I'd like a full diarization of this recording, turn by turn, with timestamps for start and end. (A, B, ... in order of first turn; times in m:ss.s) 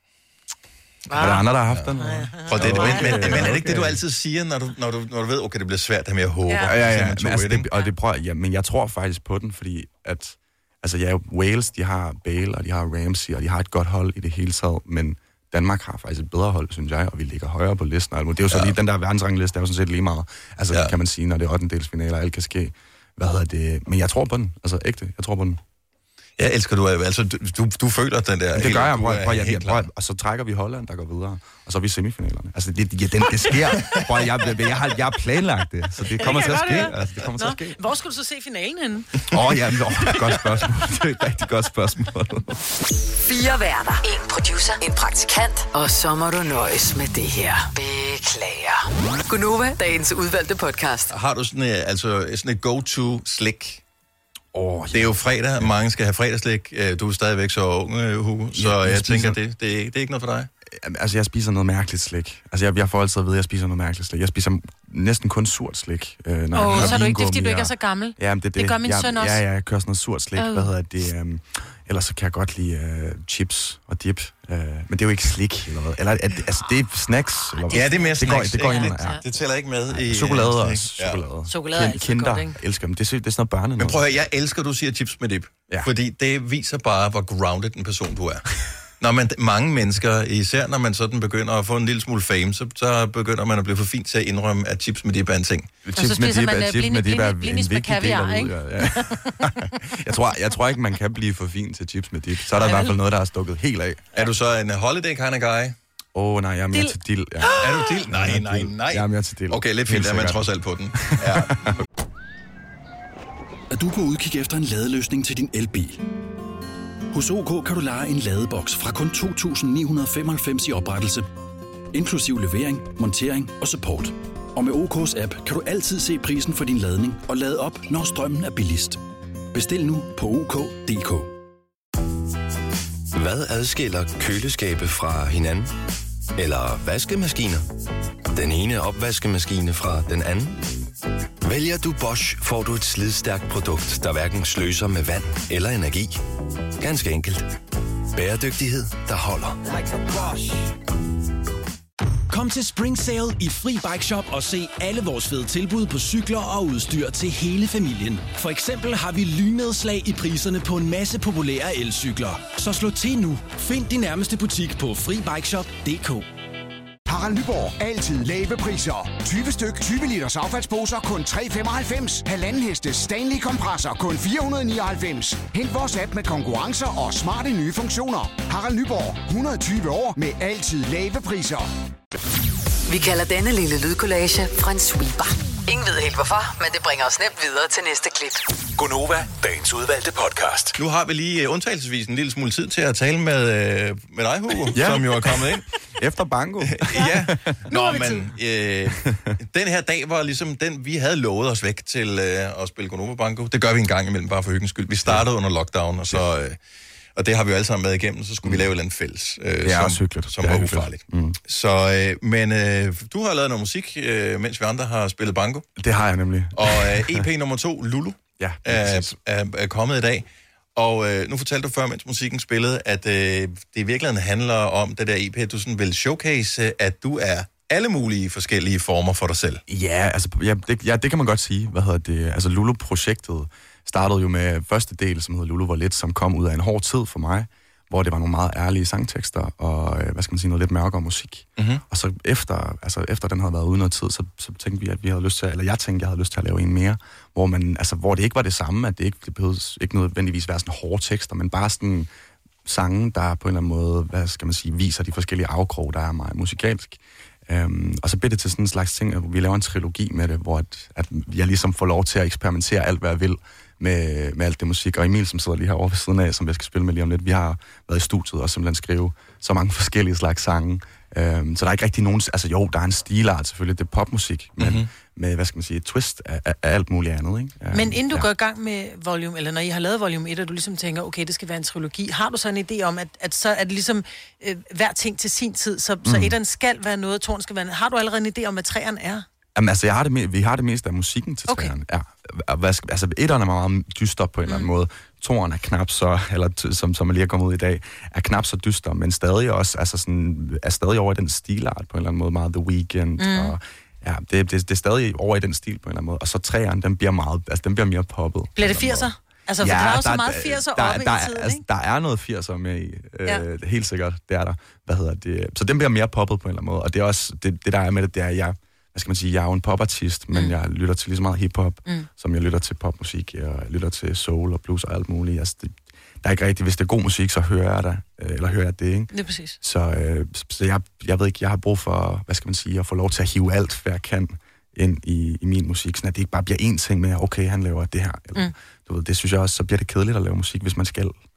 0:01.1-0:03.5 A
0:01.1-0:04.0 B
0:01.2-0:01.9 C
0:02.4-0:07.7 C
0:06.4-0:06.8 A
0:06.6-0:25.6 B
0:18.5-0:18.8 C
0:26.4-0:29.9 C
0:28.5-0:37.8 B
0:33.6-0:34.4 C
0:36.2-0:39.3 A
0:36.2-0:36.7 C
0:39.3-0:42.5 B
0:43.2-0:51.1 D
0:51.1-0:53.8 C
0:54.5-0:55.6 B
0:54.9-1:00.5 C
0:58.5-0:59.4 B
1:00.7-1:19.2 B
1:06.5-1:09.4 A
1:06.7-1:07.0 C
1:10.4-1:10.7 A
1:17.6-1:19.2 A
1:17.7-1:21.2 C
1:19.9-1:24.0 B
1:21.5-1:22.6 A
1:23.8-1:28.4 C
1:29.0-1:35.7 C
1:35.8-1:44.0 B
1:36.0-1:39.2 A
1:42.6-1:43.0 A
1:44.1-1:45.8 C
1:46.1-1:51.8 B
1:46.7-1:48.0 A
1:47.6-1:51.5 C
1:53.7-1:56.0 E
1:57.1-2:01.2 E
2:01.9-2:09.0 E
2:09.5-2:11.3 E
2:13.1-2:15.7 F
2:16.3-2:17.6 F
2:18.3-2:20.6 F
2:21.4-2:26.2 F
2:26.8-2:27.5 F
2:28.1-2:29.6 F
2:32.3-2:46.2 G
2:47.1-3:01.7 H
3:02.9-3:08.4 D
3:08.8-3:10.7 I
3:10.8-3:15.7 C
3:14.7-3:17.6 B
3:16.6-3:26.6 C
3:17.7-3:18.3 A
3:27.2-3:35.6 C
3:29.6-3:31.4 B
3:35.8-3:37.2 B
3:36.5-3:49.6 C
3:38.4-3:39.1 B
3:49.7-4:12.1 B
4:12.6-4:38.3 B
4:34.6-4:34.9 C
4:37.7-4:49.2 A
4:46.0-4:46.4 B
4:49.5-5:41.2 B
4:51.5-4:51.7 A
5:03.2-5:03.5 A
5:08.6-5:11.6 A
5:29.1-5:29.6 A